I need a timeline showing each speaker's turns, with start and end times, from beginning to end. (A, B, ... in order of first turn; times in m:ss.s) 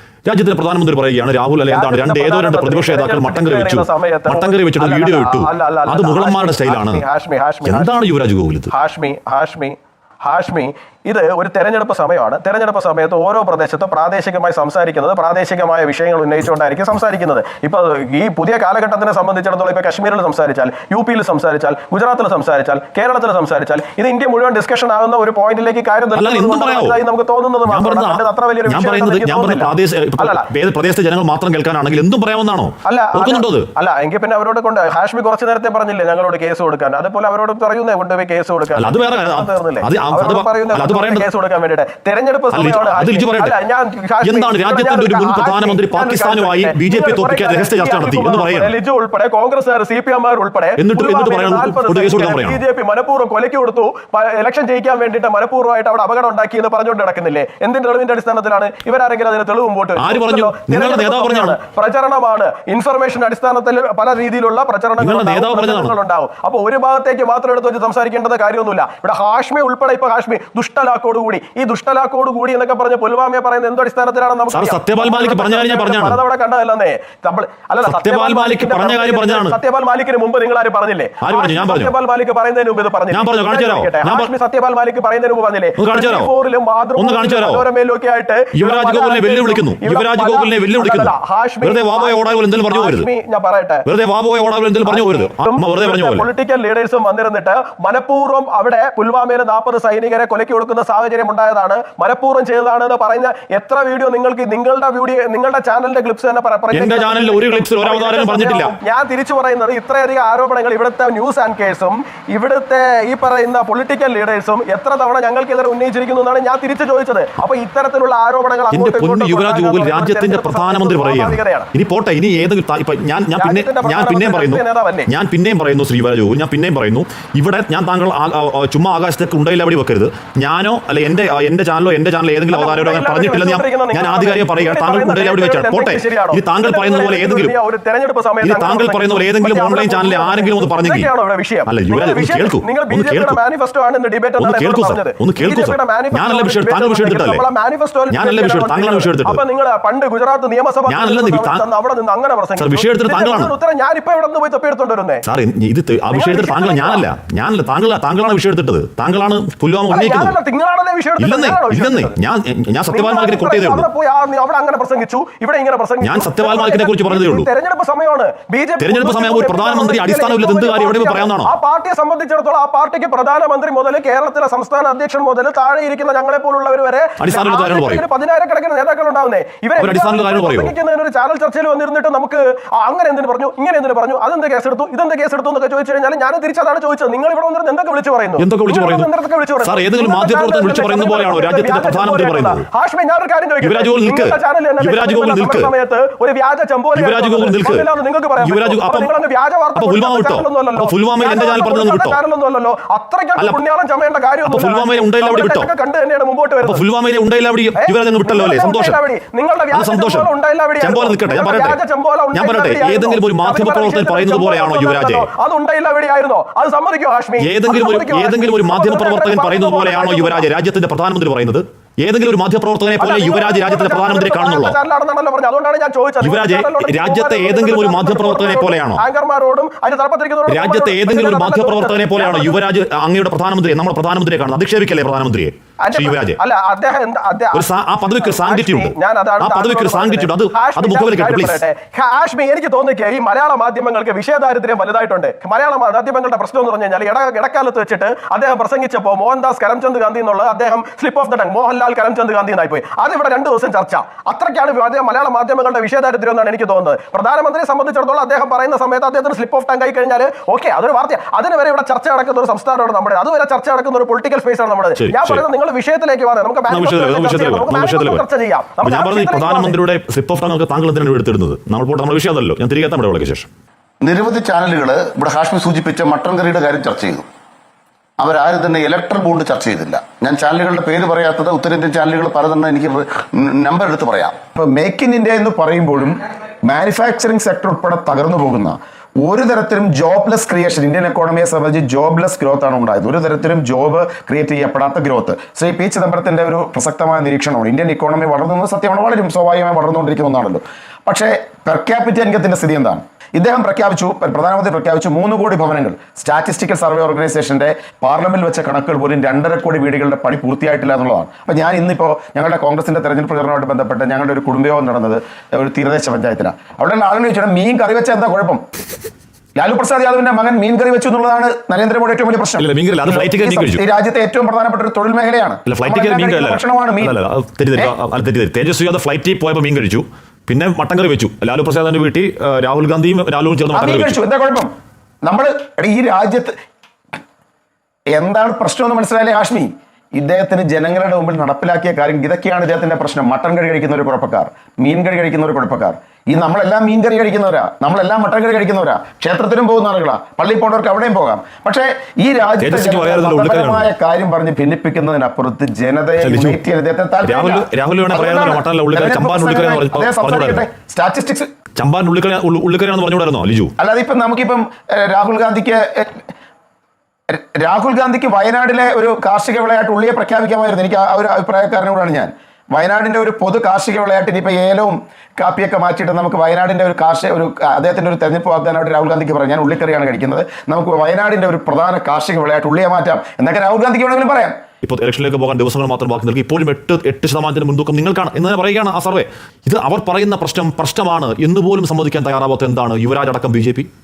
0:00.2-0:07.0 A
0:01.7-0:07.9 B
0:07.6-0:08.7 A
0:08.7-0:30.4 B
0:26.1-0:27.0 A
0:27.7-0:33.7 A
0:32.8-1:33.8 B
0:38.7-0:41.2 A
0:42.5-0:43.5 A
0:44.2-0:48.7 A
0:50.8-0:52.6 A
1:00.0-1:01.6 A
1:05.0-1:05.9 A
1:14.5-1:16.2 A
1:17.8-1:19.6 A
1:21.2-1:21.9 A
1:23.1-1:24.3 A
1:25.8-1:26.3 A
1:27.0-1:27.6 A
1:28.5-1:33.1 A
1:33.8-1:36.3 A
1:34.8-2:01.7 B
1:46.7-1:48.7 A
1:58.7-2:17.5 A
2:03.4-2:05.1 B
2:12.5-2:35.2 B
2:18.4-2:21.1 A
2:21.7-2:23.4 A
2:24.4-2:27.4 A
2:28.1-2:29.4 A
2:30.9-2:31.6 A
2:32.6-2:33.5 A
2:35.2-2:40.3 A
2:36.1-2:37.1 B
2:39.9-2:42.1 B
2:41.2-2:43.9 A
2:42.9-3:26.8 B
2:46.0-2:47.5 A
2:48.8-2:51.5 A
2:57.2-2:58.0 A
2:59.8-3:00.7 A
3:08.4-3:09.1 A
3:09.6-3:12.6 A
3:13.6-3:15.7 A
3:16.9-3:17.8 A
3:18.4-3:19.1 A
3:19.8-3:22.2 A
3:24.4-3:25.7 A
3:26.6-3:29.0 A
3:27.8-3:40.5 B
3:29.7-3:30.3 A
3:30.8-3:31.8 A
3:32.3-3:35.3 A
3:37.4-3:44.8 A
3:43.0-3:52.6 B
3:46.2-3:49.0 A
3:50.5-3:56.4 A
3:55.8-4:29.8 B
3:57.5-4:01.6 A
4:25.0-4:25.4 A
4:26.7-4:28.2 A
4:28.8-4:33.5 A
4:34.0-4:37.2 C
4:38.2-4:44.4 C
4:44.5-5:18.6 D
5:19.6-5:27.1 D
5:22.6-5:23.8 A
5:25.6-5:34.2 A
5:33.7-5:34.7 D
5:35.2-5:36.5 D
5:38.1-6:01.5 D
5:52.6-5:53.9 A
5:56.2-5:56.6 A
5:57.2-6:00.6 A
6:01.8-6:03.7 A
6:03.8-6:06.3 D
6:07.3-6:24.6 D
6:24.8-6:33.9 A